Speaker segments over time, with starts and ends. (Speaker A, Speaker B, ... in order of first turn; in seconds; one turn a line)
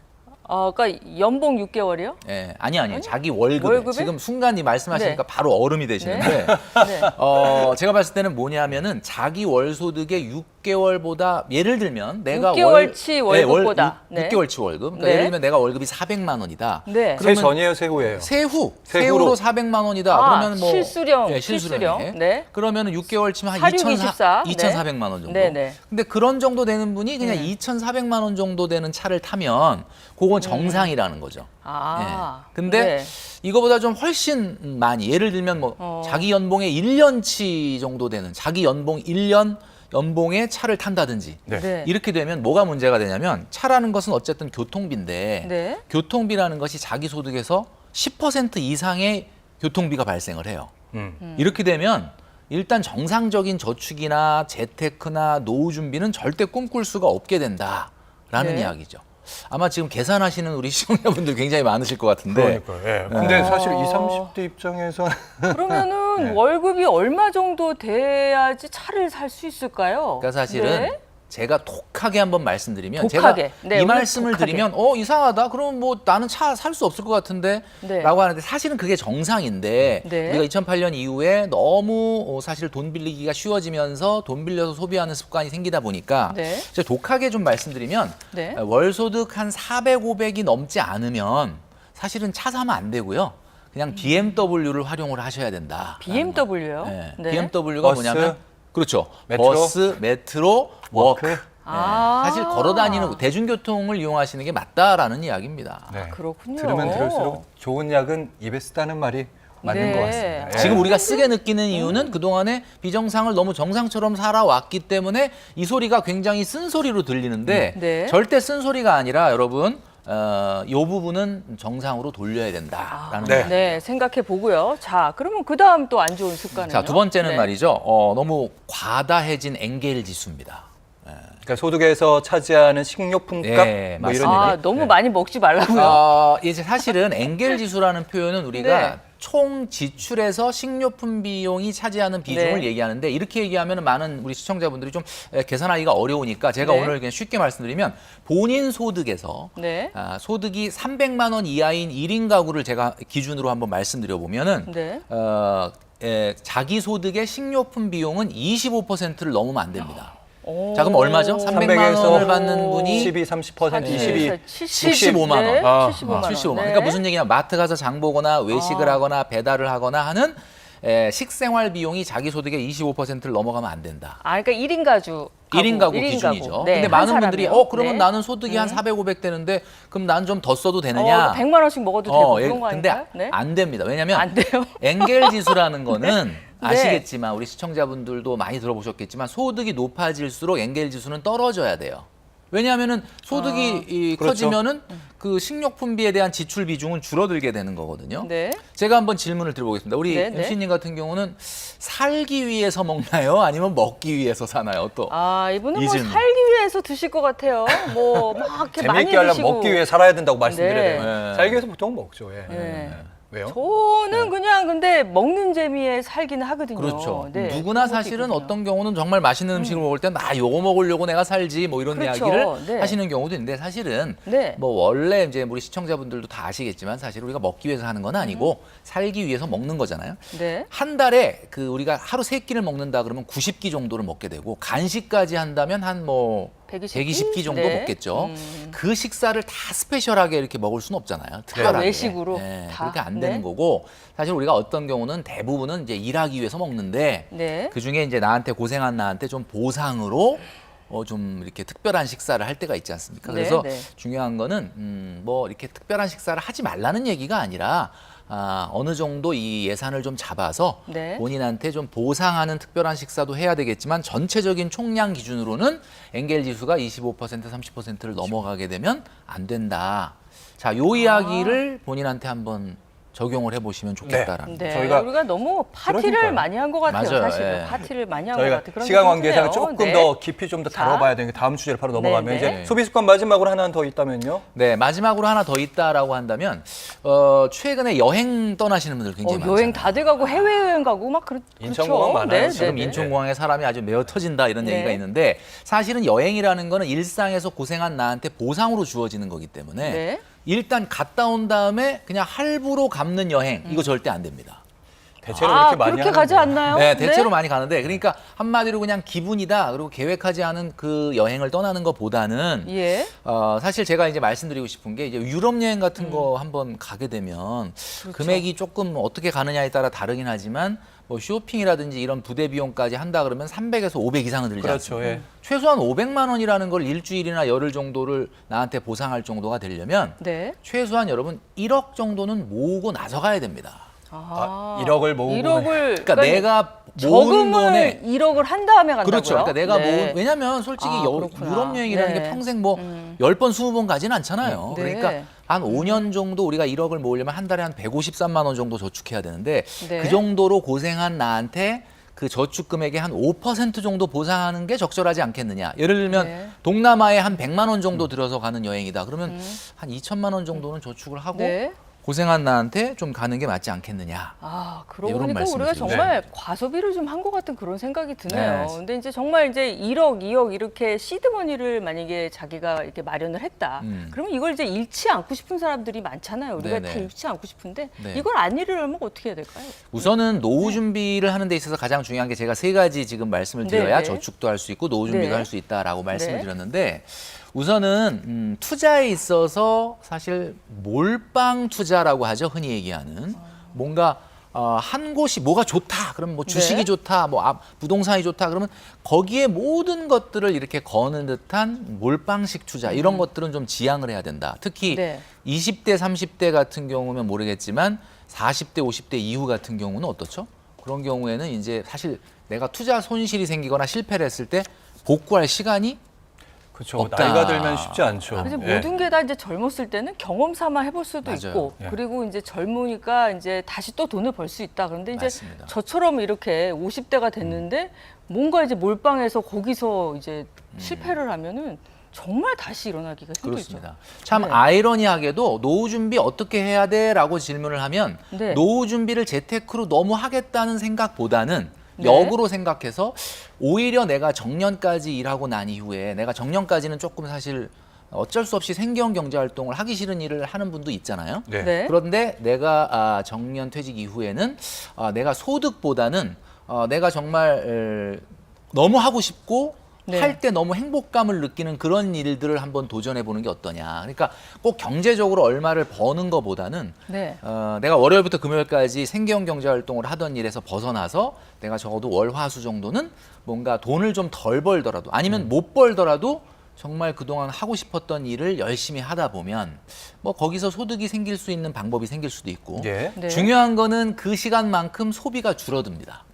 Speaker A: 0.5-2.2
Speaker B: 2.2-50.7
Speaker A: 2.9-4.1
Speaker A: 4.9-5.2
Speaker A: 6.0-7.2
Speaker C: 6.6-6.8
Speaker A: 12.3-15.4
Speaker A: 16.9-17.2
Speaker C: 17.2-18.3
Speaker C: 18.8-19.4
Speaker A: 20.1-22.5
Speaker A: 23.5-25.8
Speaker A: 27.2-27.5
Speaker A: 30.4-30.9
Speaker A: 31.6-33.1
Speaker A: 35.8-36.3
Speaker A: 41.5-41.9
Speaker A: 45.4-45.8
Speaker C: 50.9-51.2
Speaker A: 51.2-51.5
Speaker B: 51.4-63.6
Speaker A: 58.4-58.7
Speaker C: 62.3-66.4
Speaker A: 63.2-64.3
Speaker A: 65.5-71.0
Speaker B: 70.2-106.0
Speaker A: 73.0-74.7
Speaker A: 77.8-78.1
Speaker A: 80.0-80.5
Speaker A: 86.3-86.7
Speaker A: 88.3-88.6
Speaker A: 96.0-97.5
Speaker C: 97.8-98.4
Speaker C: 99.3-99.8
Speaker C: 100.9-101.4
Speaker A: 101.7-103.2
Speaker C: 105.9-110.9
Speaker A: 106.1-107.4
Speaker B: 106.8-107.0
Speaker A: 109.6-112.2
Speaker B: 110.5-123.8
Speaker A: 117.7-118.2
Speaker A: 122.9-127.5
Speaker C: 123.2-123.5
Speaker B: 126.5-131.4
Speaker C: 131.4-134.9
Speaker B: 133.4-134.6
Speaker A: 134.2-136.1
Speaker B: 135.7-160.2
Speaker A: 138.5-139.0
Speaker A: 142.3-142.7
Speaker A: 146.6-147.0
Speaker A: 149.6-149.9
Speaker A: 154.7-155.1
Speaker A: 160.4-167.0
Speaker B: 160.7-163.1
Speaker C: 161.5-166.3
Speaker B: 163.8-174.2
Speaker A: 168.5-169.0
Speaker A: 174.2-178.8
Speaker B: 175.5-181.4
Speaker A: 180.9-183.4
Speaker B: 182.0-205.2
Speaker A: 184.1-187.1
Speaker A: 193.3-193.9
Speaker C: 194.2-194.6
Speaker A: 198.2-198.6
Speaker A: 200.1-200.6
Speaker A: 205.1-209.8
Speaker B: 205.7-206.3
Speaker C: 208.7-213.6
Speaker A: 210.4-211.1
Speaker B: 210.9-211.6
Speaker B: 212.5-213.1
Speaker A: 212.5-218.6
Speaker B: 216.8-274.9
Speaker A: 219.5-219.8
Speaker A: 221.9-223.0
Speaker A: 224.3-224.6
Speaker A: 228.2-228.5
Speaker A: 230.3-230.7
Speaker A: 236.7-238.8
Speaker A: 241.5-243.4
Speaker C: 241.5-241.8
Speaker A: 247.3-247.7
Speaker A: 253.2-253.9
Speaker A: 260.9-261.2
Speaker A: 270.9-271.6
Speaker C: 274.0-275.1
Speaker A: 274.5-280.1
Speaker C: 275.9-276.5
Speaker B: 276.9-277.9
Speaker C: 278.3-284.4
Speaker A: 280.7-281.1
Speaker A: 281.9-282.6
Speaker B: 282.4-282.8
Speaker B: 284.5-290.7
Speaker A: 289.2-293.0
Speaker C: 291.6-293.2
Speaker B: 292.3-304.6
Speaker A: 294.6-295.0
Speaker A: 299.8-300.2
Speaker A: 303.6-303.9
Speaker C: 305.2-306.8
Speaker A: 305.3-307.3
Speaker B: 306.7-333.8
Speaker A: 312.6-313.1
Speaker A: 316.0-316.3
Speaker A: 318.0-318.4
Speaker C: 324.6-325.2
Speaker A: 330.2-330.6
Speaker A: 334.1-340.2
Speaker C: 334.4-335.9
Speaker B: 336.0-338.0
Speaker B: 339.0-364.4
Speaker A: 340.8-343.2
Speaker A: 344.7-346.1
Speaker A: 349.8-350.2
Speaker A: 356.1-356.6
Speaker A: 359.3-359.6
Speaker A: 361.3-361.8
Speaker A: 364.4-380.1
Speaker B: 365.0-366.2
Speaker B: 368.3-368.8
Speaker B: 373.8-374.2
Speaker B: 376.6-377.1
Speaker B: 378.0-378.3
Speaker B: 379.9-416.0
Speaker A: 383.6-384.2
Speaker A: 385.1-385.5
Speaker A: 386.1-386.5
Speaker A: 396.5-396.9
Speaker A: 402.9-403.3
Speaker A: 404.9-405.2
Speaker C: 416.7-418.9
Speaker B: 417.0-419.0
Speaker A: 418.4-434.6
Speaker B: 421.2-421.7
Speaker B: 425.1-425.7
Speaker B: 430.7-431.2
Speaker B: 433.4-486.2
Speaker A: 438.3-438.6
Speaker A: 442.0-442.4
Speaker A: 451.6-451.9
Speaker A: 460.1-460.4
Speaker A: 467.1-467.4
Speaker C: 482.8-483.1
Speaker A: 483.2-483.5